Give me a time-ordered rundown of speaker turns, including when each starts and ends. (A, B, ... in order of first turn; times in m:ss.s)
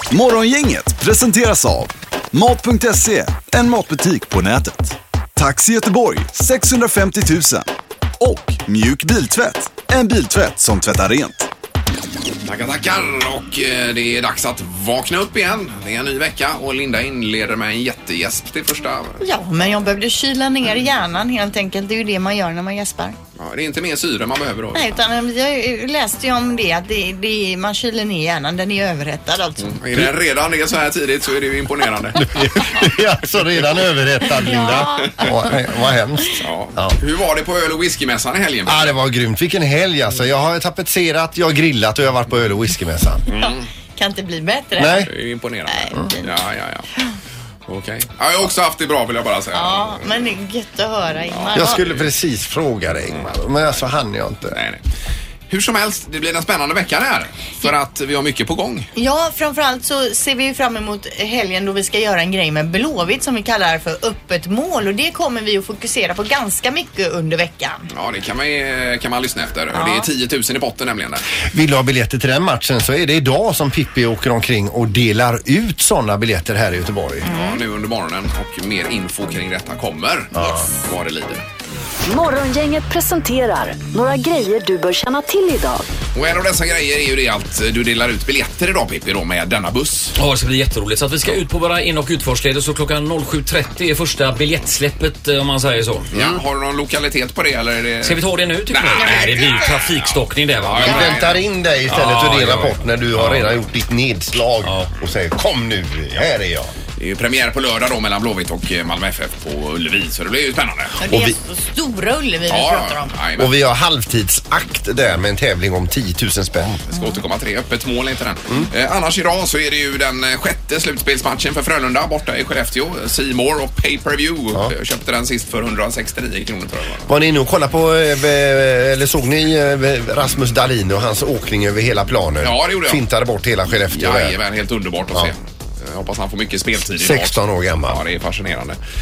0:00.1-0:07.7 A
0:08.2-0:11.5 A
0:12.4-0:19.2 B
0:19.2-0:23.2 C
0:23.4-0:24.9 B
0:24.7-0:29.7 C
0:29.6-0:32.9 B
0:32.2-0:37.0 D
0:34.4-0:35.5 C
0:34.6-0:35.0 B
0:36.4-0:39.0 B
0:38.6-0:43.3 D
0:43.3-0:43.7 B
0:43.3-0:45.1 C
0:44.8-0:45.1 D
0:45.0-0:46.9 B
0:45.7-0:46.3 C
0:47.7-0:50.1 B
0:49.5-0:51.8 C
0:51.3-0:52.1 B
0:51.5-0:54.6 D
0:54.5-0:54.8 B
0:55.5-0:58.9 B
0:59.0-1:07.9 C
1:07.9-1:11.2 B
1:09.7-1:10.1 C
1:11.5-1:17.3 D
1:17.2-1:17.6 C
1:17.3-1:21.4 B
1:20.3-1:20.7 D
1:22.0-1:25.9 E
1:26.1-1:30.1 B
1:30.2-1:36.1 F
1:36.1-1:41.4 B
1:38.0-1:41.2 F
1:40.8-1:46.7 D
1:41.9-1:43.3 F
1:47.0-1:51.0 B
1:51.0-1:53.2 C
1:51.1-1:51.3 D
1:52.5-1:53.5 B
1:53.4-1:56.8 D
1:56.9-2:07.1 B
2:07.1-2:14.4 D
2:12.4-2:13.0 B
2:13.8-2:18.8 B
2:17.0-2:18.0 D